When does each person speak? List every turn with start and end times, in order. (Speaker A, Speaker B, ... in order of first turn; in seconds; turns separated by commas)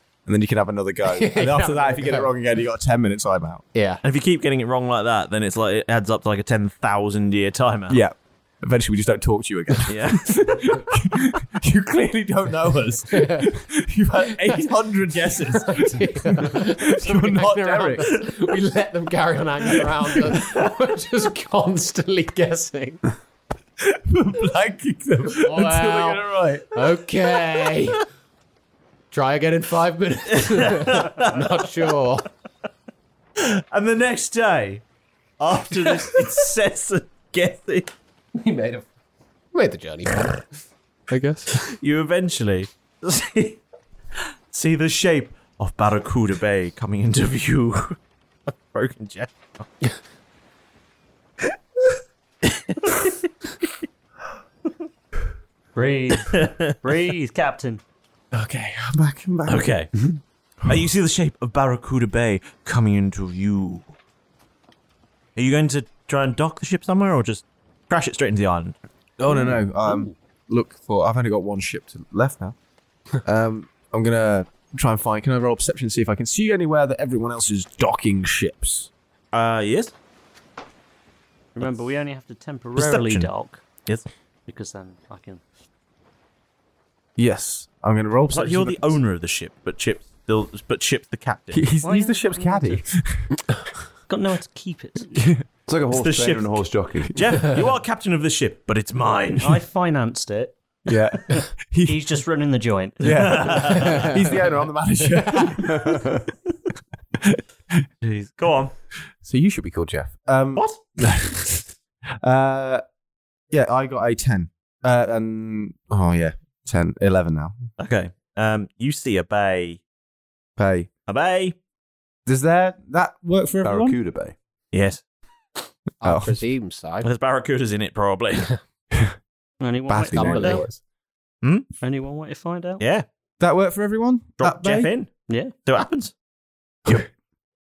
Speaker A: 0.3-3.7, Speaker B: 1.1-2.3, Speaker B: 3.7-4.0, Speaker C: 4.0-8.0, Speaker A: 7.9-18.1, Speaker C: 9.9-10.3, Speaker B: 13.1-13.5, Speaker B: 15.5-23.0, Speaker A: 23.8-26.7, Speaker B: 25.4-26.2, Speaker B: 26.7-28.0, Speaker B: 29.1-32.3, Speaker C: 30.4-31.3, Speaker C: 33.4-34.8, Speaker C: 35.4-37.9, Speaker B: 38.4-38.8, Speaker B: 39.5-40.4, Speaker B: 41.1-41.5, Speaker C: 41.7-43.6, Speaker C: 44.5-48.0, Speaker C: 48.5-49.7, Speaker D: 55.8-57.8, Speaker C: 56.3-56.8, Speaker A: 58.3-59.7, Speaker C: 59.5-59.9, Speaker C: 60.7-63.9, Speaker C: 65.4-68.8, Speaker A: 69.2-72.5, Speaker A: 73.2-78.9, Speaker C: 79.3-79.9, Speaker D: 81.5-83.7, Speaker C: 82.8-83.3, Speaker D: 84.5-85.4, Speaker A: 87.2-89.0, Speaker C: 88.3-91.7, Speaker A: 91.5-93.3, Speaker D: 91.8-92.8, Speaker D: 94.1-95.1, Speaker A: 95.2-95.4, Speaker E: 95.7-97.4, Speaker C: 95.9-99.6, Speaker D: 99.4-104.1, Speaker A: 100.9-102.2, Speaker A: 103.0-106.1, Speaker C: 103.1-104.1, Speaker E: 105.7-106.2, Speaker A: 107.2-107.8, Speaker C: 108.0-108.7, Speaker A: 109.2-111.7, Speaker A: 112.2-112.8, Speaker A: 113.5-117.6, Speaker C: 117.8-119.8, Speaker A: 120.6-120.9, Speaker C: 121.1-121.6, Speaker A: 122.3-124.0, Speaker E: 123.6-124.3, Speaker C: 124.7-125.0, Speaker B: 126.0-127.1, Speaker A: 126.0-126.4, Speaker C: 127.0-128.5, Speaker D: 129.6-130.7, Speaker A: 129.9-130.8, Speaker B: 130.1-130.6, Speaker C: 131.4-131.7, Speaker D: 131.8-132.8, Speaker C: 132.8-133.1, Speaker A: 133.4-134.9, Speaker C: 134.4-136.1, Speaker D: 135.2-135.5